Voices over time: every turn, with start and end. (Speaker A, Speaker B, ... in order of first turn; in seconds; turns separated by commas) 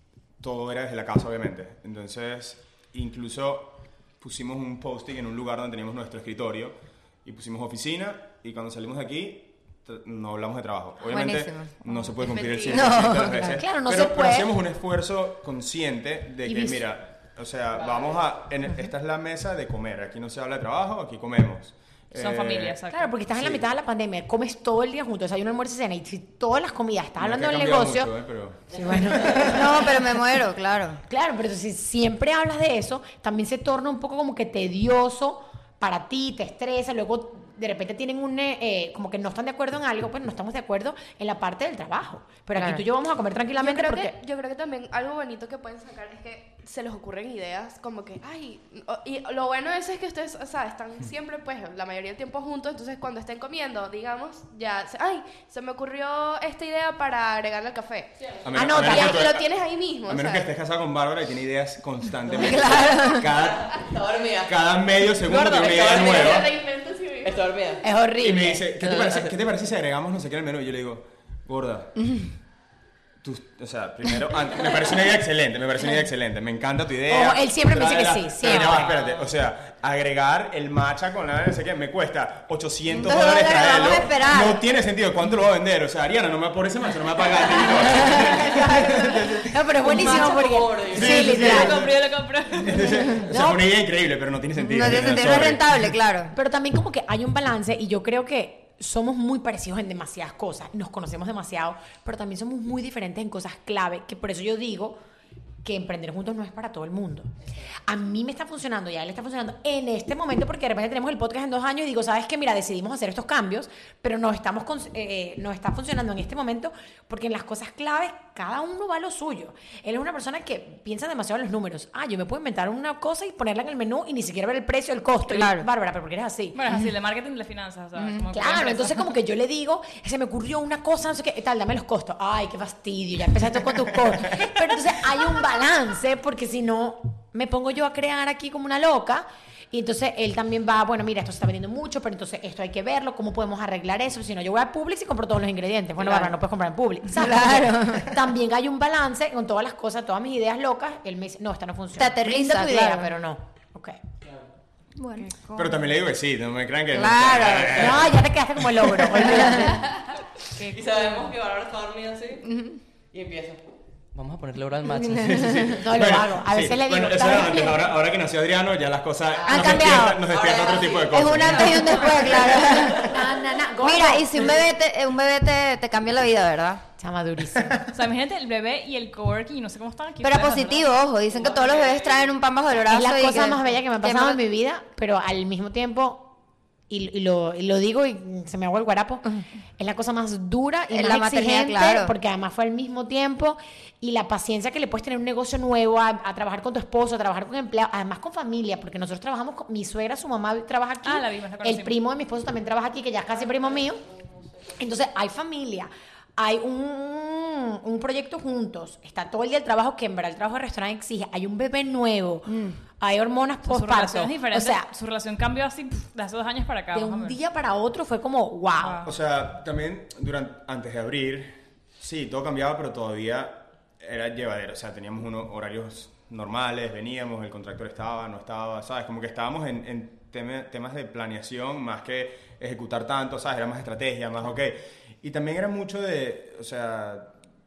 Speaker A: 0.4-22.8, Speaker B: 11.0-11.8, Speaker C: 12.2-12.9, Speaker B: 12.7-13.6, Speaker D: 13.3-14.5, Speaker D: 16.4-16.8, Speaker E: 17.8-18.2, Speaker F: 22.1-23.1, Speaker D: 22.9-28.1, Speaker A: 23.3-23.7, Speaker A: 27.2-29.4, Speaker D: 28.7-30.0, Speaker B: 29.4-31.0, Speaker D: 31.1-44.1, Speaker B: 42.5-42.8, Speaker C: 43.6-58.1, Speaker A: 58.4-59.5, Speaker D: 58.5-59.3, Speaker C: 58.6-60.5, Speaker A: 60.0-66.5, Speaker E: 62.3-64.5, Speaker B: 62.4-63.2, Speaker E: 65.2-66.6, Speaker C: 65.6-67.7, Speaker E: 67.2-67.8, Speaker D: 67.8-68.7, Speaker A: 68.2-72.0, Speaker E: 68.9-69.3, Speaker B: 72.0-72.3, Speaker A: 73.2-89.9, Speaker D: 77.1-79.0, Speaker B: 82.9-84.6, Speaker D: 87.8-91.8, Speaker E: 89.8-91.6, Speaker A: 90.9-92.0, Speaker F: 91.0-93.2, Speaker A: 92.6-96.0, Speaker D: 93.3-93.6, Speaker B: 94.6-96.3, Speaker D: 96.3-105.0, Speaker D: 105.6-107.3, Speaker D: 107.9-126.6, Speaker B: 125.3-125.7, Speaker F: 126.5-129.1, Speaker D: 128.3-154.0, Speaker B: 146.0-146.3, Speaker B: 147.1-148.2, Speaker B: 151.9-153.1, Speaker B: 154.9-155.3, Speaker D: 155.3-155.8, Speaker A: 155.5-159.4, Speaker B: 156.9-158.1, Speaker D: 157.7-159.9, Speaker B: 159.4-159.8, Speaker E: 160.6-162.4, Speaker D: 160.7-161.2, Speaker B: 162.4-162.8, Speaker E: 163.1-165.8, Speaker A: 165.1-172.4, Speaker D: 165.7-167.9, Speaker E: 169.4-173.5, Speaker B: 169.4-170.2, Speaker B: 171.1-173.2, Speaker D: 173.0-174.6, Speaker B: 173.8-176.8, Speaker D: 177.0-177.9, Speaker F: 177.9-180.9, Speaker B: 180.2-184.4, Speaker E: 181.3-182.3, Speaker D: 182.9-186.3, Speaker D: 186.9-189.2, Speaker D: 189.8-204.0, Speaker B: 190.9-192.1, Speaker F: 201.0-202.0, Speaker E: 203.4-204.3, Speaker D: 204.8-214.9, Speaker B: 212.5-212.8, Speaker F: 213.7-217.4, Speaker D: 216.9-219.0, Speaker F: 218.8-219.1, Speaker A: 219.0-237.3